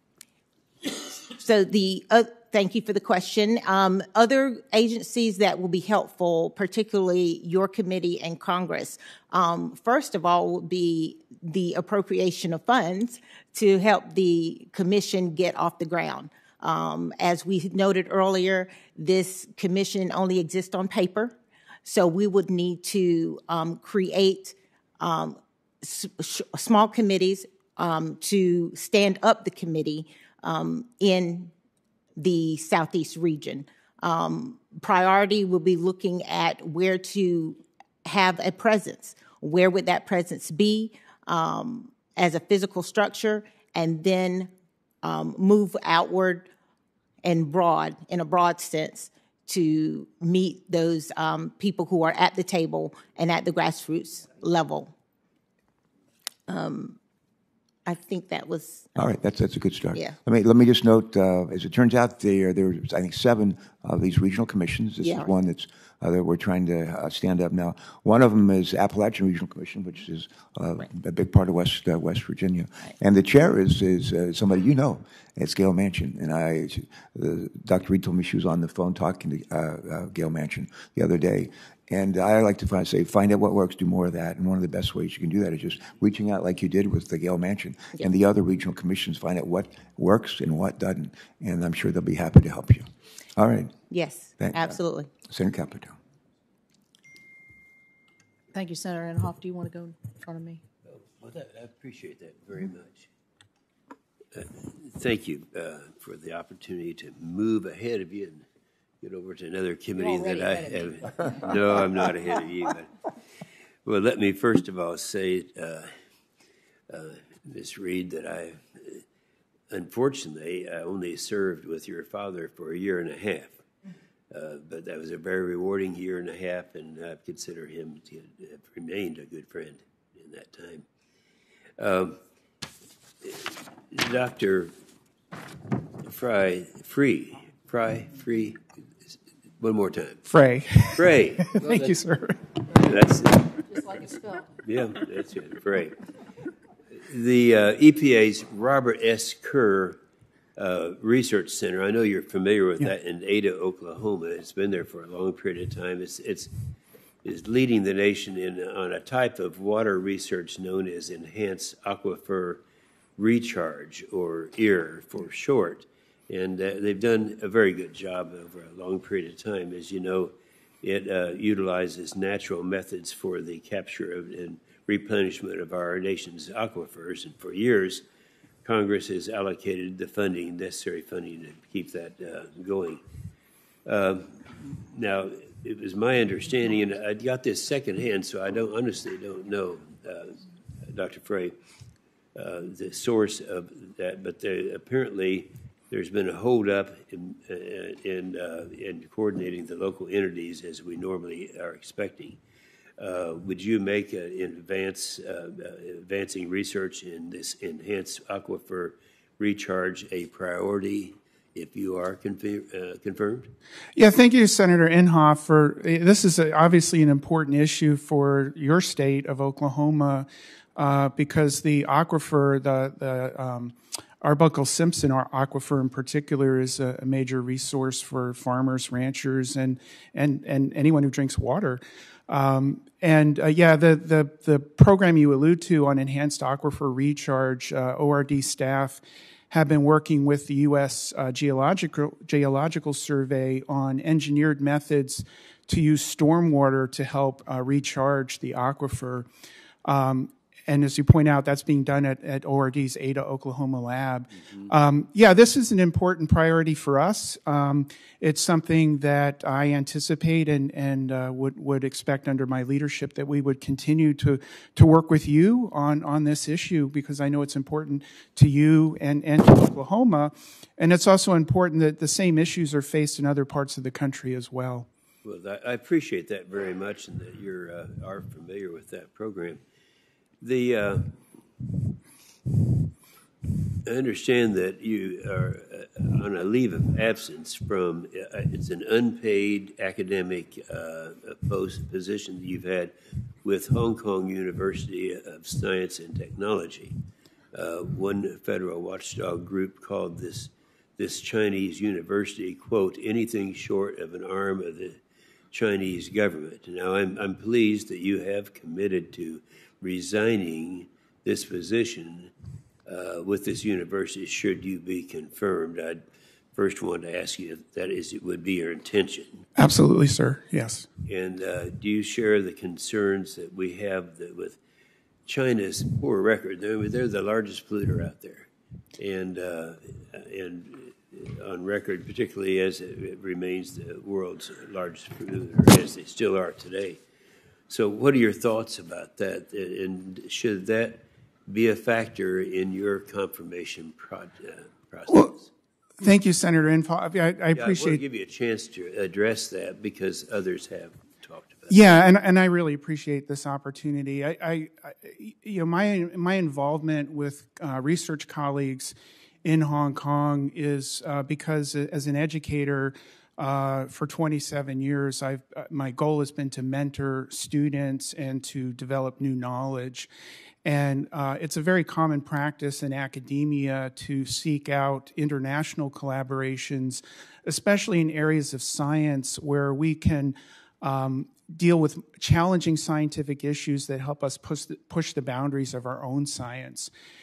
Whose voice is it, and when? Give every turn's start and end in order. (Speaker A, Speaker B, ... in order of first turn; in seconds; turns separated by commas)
Speaker A: 1.3-31.5, Speaker A: 32.2-44.5, Speaker A: 45.0-46.5, Speaker A: 47.2-54.9, Speaker A: 56.5-57.0, Speaker A: 57.9-58.9, Speaker B: 59.0-93.8, Speaker A: 65.0-65.3, Speaker A: 93.9-95.1, Speaker B: 94.4-96.0, Speaker C: 98.5-100.6, Speaker D: 101.2-103.1, Speaker D: 104.3-108.5, Speaker D: 109.0-112.9, Speaker C: 110.0-111.6, Speaker D: 113.8-115.9, Speaker D: 116.9-119.0, Speaker D: 119.7-123.6, Speaker D: 124.3-130.9, Speaker D: 131.8-132.2, Speaker D: 133.2-134.7, Speaker D: 136.0-140.2, Speaker E: 140.3-142.5, Speaker D: 140.9-142.0, Speaker D: 142.7-143.6, Speaker C: 143.7-144.6, Speaker D: 144.6-146.0, Speaker D: 146.9-150.0, Speaker D: 150.6-156.5, Speaker D: 157.2-162.6, Speaker D: 163.2-178.0, Speaker D: 178.6-183.0, Speaker D: 183.8-191.5, Speaker D: 192.3-202.4, Speaker D: 203.0-213.5, Speaker E: 214.0-249.3, Speaker E: 249.8-274.9, Speaker D: 275.2-279.6, Speaker D: 280.4-281.1, Speaker D: 283.9-297.0, Speaker D: 297.5-305.0, Speaker D: 305.5-312.3, Speaker D: 312.9-316.0, Speaker D: 316.6-319.4, Speaker E: 319.6-320.9, Speaker D: 321.1-324.6, Speaker D: 325.3-337.0, Speaker D: 337.7-345.5, Speaker E: 346.0-348.0, Speaker D: 347.6-351.8, Speaker E: 351.7-370.1, Speaker E: 370.6-386.9